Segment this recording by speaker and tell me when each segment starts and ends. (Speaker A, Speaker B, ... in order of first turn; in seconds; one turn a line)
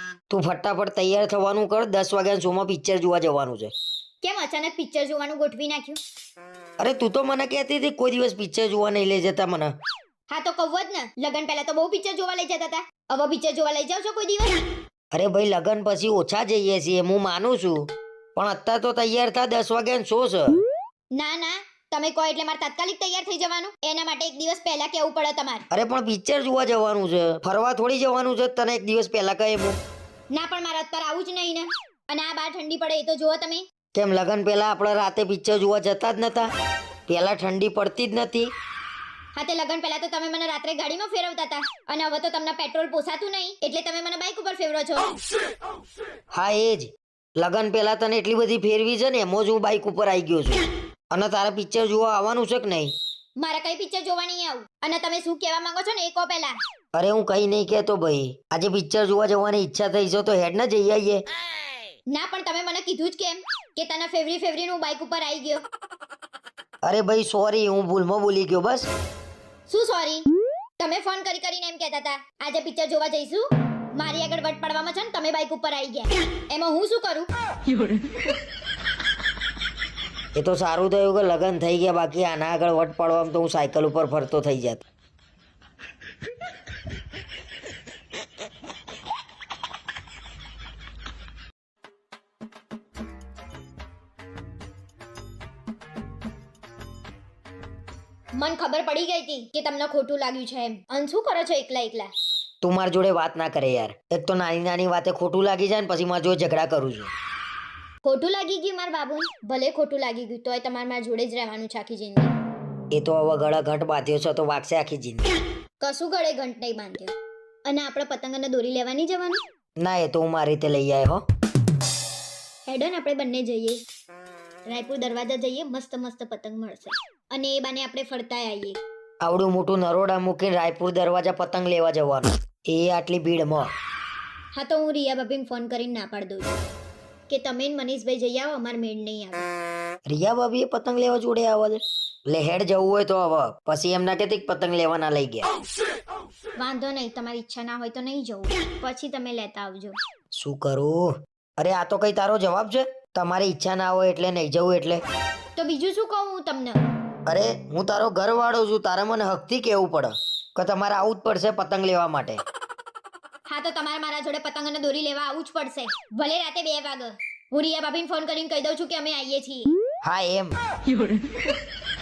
Speaker A: 0.3-3.7
Speaker B: 4.2-6.0
Speaker A: 6.8-9.7
Speaker B: 10.3-14.6
Speaker A: 15.1-20.6
Speaker B: 21.1-25.6
Speaker A: 25.7-29.8
Speaker B: 30.3-33.6
Speaker A: 34.0-36.5
Speaker A: 37.1-38.5
Speaker B: 39.3-45.1
Speaker A: 46.3-52.9
Speaker B: 53.4-56.5
Speaker A: 57.0-61.2
Speaker B: 62.1-65.6
Speaker A: 66.8-68.9
Speaker B: 69.7-70.2
Speaker B: 70.8-77.3
Speaker A: 80.3-84.8
Speaker B: 98.3-102.1
Speaker A: 102.6-107.1
Speaker B: 108.0-112.3
Speaker A: 112.9-115.3
Speaker B: 115.8-117.2
Speaker B: 117.7-119.4
Speaker A: 119.8-121.2
Speaker B: 122.7-123.8
Speaker B: 124.7-128.8
Speaker A: 129.2-133.7
Speaker B: 134.5-136.6
Speaker B: 137.3-139.5
Speaker A: 140.1-145.5
Speaker B: 146.6-150.0
Speaker A: 150.3-155.0
Speaker B: 155.6-156.8
Speaker A: 157.3-162.4
Speaker B: 163.5-169.7
Speaker A: 170.0-170.6